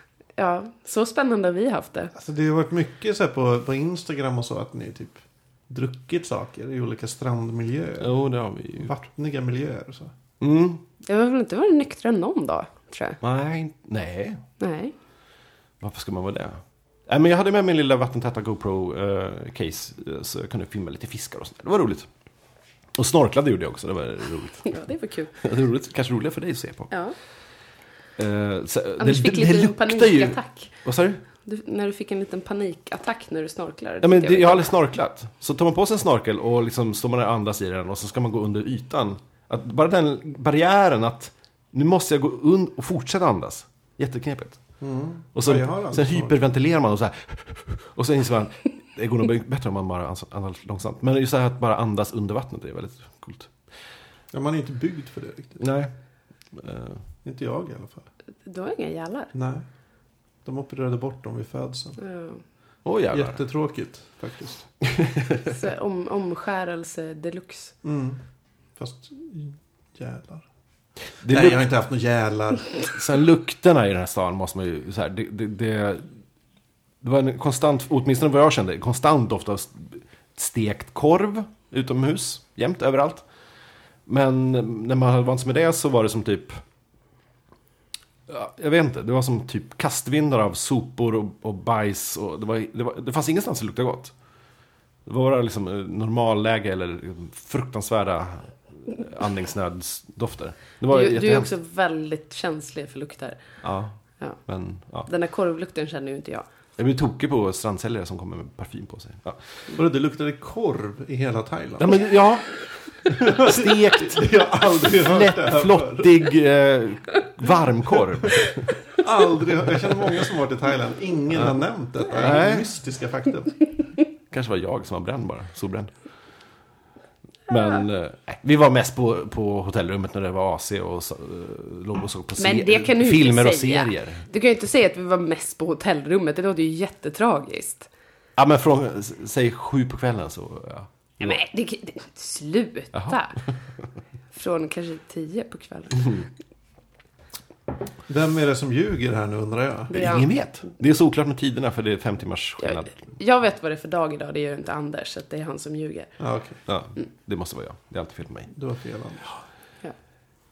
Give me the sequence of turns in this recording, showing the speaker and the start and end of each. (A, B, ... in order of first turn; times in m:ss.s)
0:00.4-0:02.1 A
0:02.1-0:08.1 B
0:08.0-0:08.9 C
0:08.8-0:10.1 B
0:10.4-0:10.8 C
0:11.0-0:13.2 A
0:13.2-0:14.4 C
0:14.6-0:14.9 A
0:15.8-0:22.1 C
0:22.9-0:24.7 C
0:24.6-0:25.3 A
0:25.4-0:26.9 C
0:28.2-0:31.2 C
0:29.0-0:30.7 A
0:31.4-0:34.7 A
0:34.0-0:44.6 C
0:44.8-0:46.4 B
0:45.3-0:53.5 C
0:54.3-0:55.6 B
0:55.6-0:55.9 C
0:56.5-0:57.0 C
0:57.2-0:58.1 B
0:58.4-0:59.3 A
0:59.3-0:59.6 B
1:00.4-1:02.0 B
1:02.0-1:02.4 A
1:02.8-1:03.4 C
1:03.1-1:04.6 B
1:04.8-1:05.5 C
1:05.4-1:07.7 A
1:07.8-1:08.2 B
1:08.8-1:10.4 B
1:11.2-1:11.7 C
1:11.2-1:12.7 B
1:12.9-1:16.1 C
1:17.0-1:23.2 C
1:24.0-1:26.6 C
1:28.3-1:34.1 C
1:35.0-1:41.5 C
1:40.9-1:43.4 A
1:43.6-1:45.1 C
1:45.1-1:46.4 A
1:46.8-1:49.4 C
1:49.7-1:52.1 B
1:51.8-1:58.8 C
1:53.2-1:56.2 B
1:59.0-2:03.6 B
2:01.3-2:02.7 C
2:04.3-2:05.9 C
2:07.5-2:14.2 C
2:12.4-2:17.9 A
2:18.4-2:21.4 C
2:21.2-2:23.4 A
2:22.9-2:23.2 C
2:24.3-2:26.2 A
2:28.1-2:29.9 B
2:29.9-2:30.7 A
2:29.9-2:32.9 C
2:32.6-2:36.1 A
2:36.2-2:36.6 B
2:36.7-2:38.5 C
2:38.5-2:39.3 B